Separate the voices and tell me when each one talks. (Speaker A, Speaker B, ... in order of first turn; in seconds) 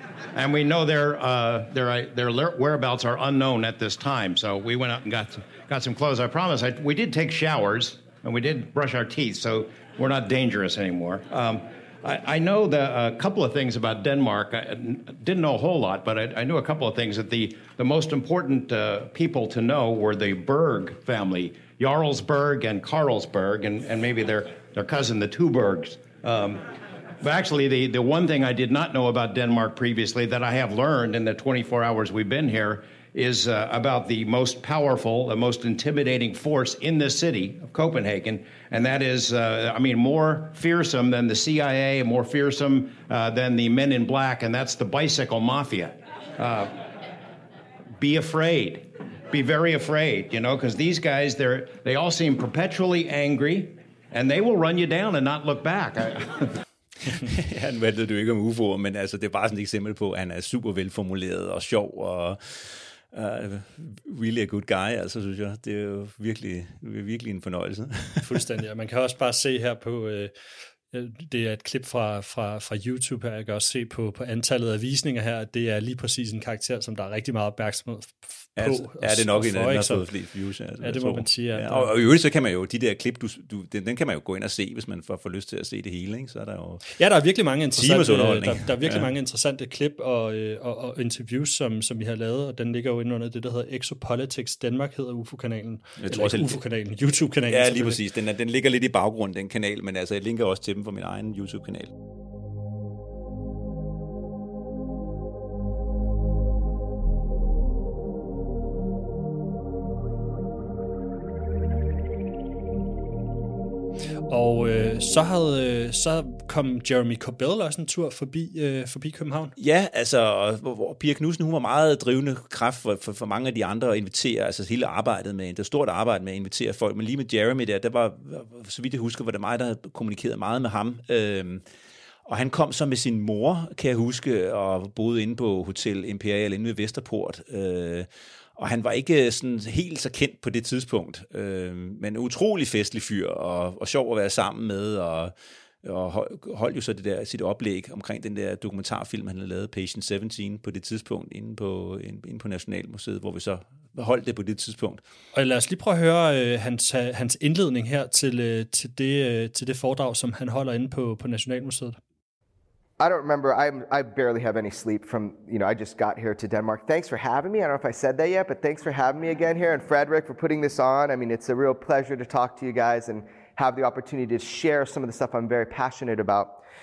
Speaker A: 0.3-26.6, 27.2-46.8, 48.0-56.5
Speaker B: 57.0-68.4, 78.6-86.9, 87.7-89.1, 96.0-96.6, 97.5-101.9, 119.6-131.6, 132.2-155.0
Speaker C: 68.2-70.3, 70.9-80.0, 80.8-81.9, 87.0-98.0, 114.3-119.5, 155.3-162.0
Speaker D: 163.0-176.6